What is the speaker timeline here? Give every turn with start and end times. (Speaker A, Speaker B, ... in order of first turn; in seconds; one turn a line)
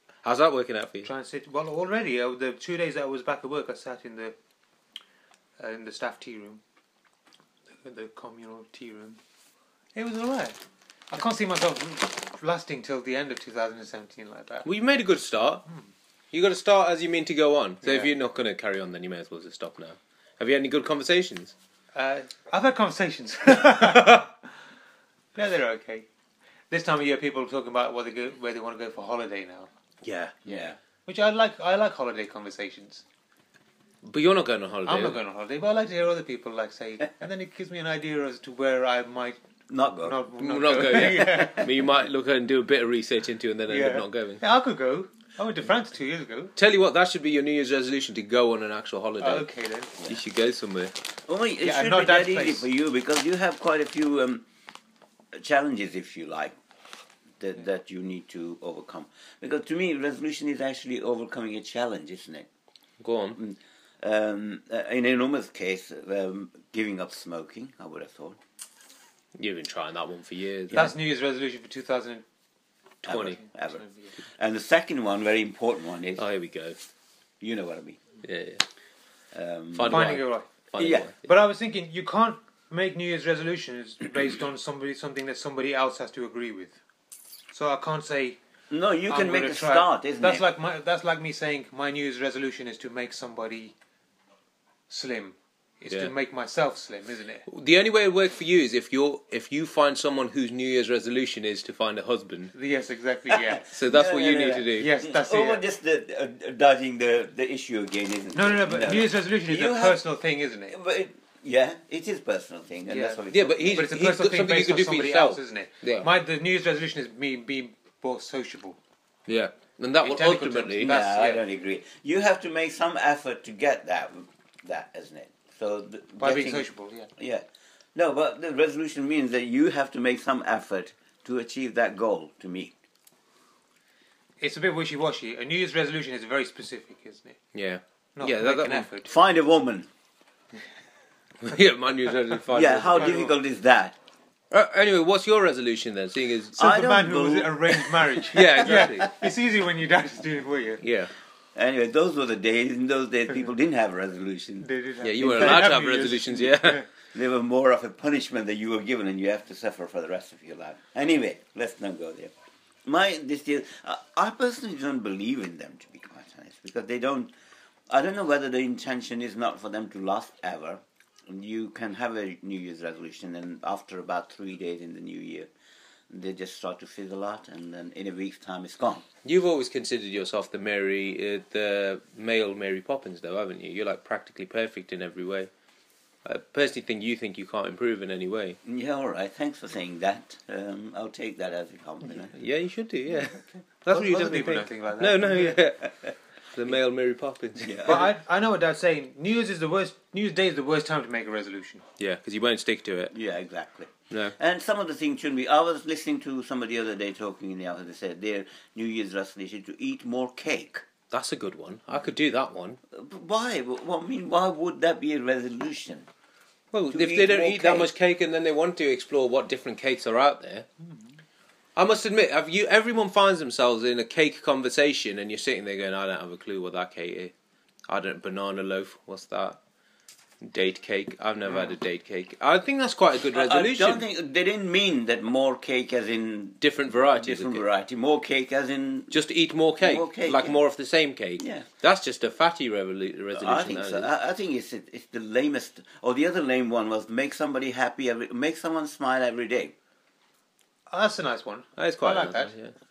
Speaker A: 0.2-1.1
Speaker B: 1.0-4.3
Speaker B: 5.6-6.6
Speaker B: 7.8-9.2
Speaker B: 9.9-10.6
Speaker B: 11.1-14.7
Speaker A: 14.6-15.6
Speaker A: 16.3-21.5
Speaker B: 17.8-18.1
Speaker B: 21.9-24.4
Speaker B: 25.3-26.1
Speaker B: 26.7-29.7
Speaker A: 30.0-30.3
Speaker C: 30.4-30.8
Speaker B: 31.1-33.0
Speaker A: 34.0-35.2
Speaker B: 34.8-39.4
Speaker C: 39.7-40.2
Speaker B: 40.0-41.9
Speaker A: 40.4-44.4
Speaker B: 43.7-46.5
Speaker A: 46.5-49.5
Speaker B: 49.2-49.9
Speaker A: 50.0-50.9
Speaker C: 51.3-54.4
Speaker B: 51.6-52.7
Speaker C: 55.3-56.5
Speaker C: 57.4-62.5
Speaker A: 63.0-63.4
Speaker C: 63.4-68.4
Speaker A: 69.4-70.9
Speaker C: 70.7-70.9
Speaker B: 70.7-72.2
Speaker C: 73.0-76.2
Speaker A: 73.0-73.4
Speaker B: 73.5-74.0
Speaker A: 76.2-76.8
Speaker C: 77.4-78.0
Speaker A: 78.2-78.6
Speaker C: 79.3-80.1
Speaker A: 79.7-81.3
Speaker B: 79.9-80.5
Speaker C: 80.8-81.1
Speaker B: 81.2-86.8
Speaker B: 87.5-88.4
Speaker C: 88.7-90.5
Speaker B: 89.1-93.7
Speaker B: 94.9-97.5
Speaker A: 95.9-96.1
Speaker A: 97.5-102.5
Speaker B: 102.5-103.7
Speaker C: 103.3-110.0
Speaker A: 103.7-104.9
Speaker B: 104.7-105.6
Speaker B: 108.3-110.8
Speaker C: 110.7-113.9
Speaker B: 112.9-118.8
Speaker A: 113.3-116.1
Speaker A: 119.3-121.0
Speaker B: 120.0-121.4
Speaker C: 120.8-132.8
Speaker B: 126.2-127.1
Speaker B: 134.4-137.4
Speaker A: 137.5-138.9
Speaker B: 138.2-139.1
Speaker C: 139.0-139.9
Speaker A: 141.4-143.2
Speaker C: 142.5-143.9
Speaker B: 142.9-143.3
Speaker A: 144.5-146.6
Speaker B: 146.5-150.8
Speaker C: 146.6-149.1
Speaker A: 148.3-149.1
Speaker A: 150.8-151.1
Speaker C: 151.5-156.5
Speaker B: 154.6-156.9
Speaker A: 155.0-156.8
Speaker C: 157.1-162.3
Speaker C: 162.8-167.3
Speaker C: 167.9-175.5
Speaker C: 176.1-179.0
Speaker A: 179.2-185.5
Speaker A: 186.2-188.6
Speaker C: 188.6-192.3
Speaker A: 192.3-196.0
Speaker B: 193.9-195.6
Speaker A: 196.5-198.1
Speaker C: 197.6-198.1
Speaker B: 197.8-201.8
Speaker A: 202.0-203.1
Speaker C: 203.1-210.8
Speaker A: 204.1-204.3
Speaker A: 211.1-212.8
Speaker C: 212.9-216.1
Speaker A: 216.7-220.7
Speaker C: 216.9-217.9
Speaker A: 221.8-227.3
Speaker A: 227.9-229.6
Speaker A: 230.4-234.0
Speaker C: 233.3-239.2
Speaker A: 236.6-237.6
Speaker A: 239.1-244.1
Speaker C: 239.8-240.6
Speaker C: 241.4-241.7
Speaker C: 243.3-249.7
Speaker B: 250.9-252.5
Speaker A: 251.8-252.7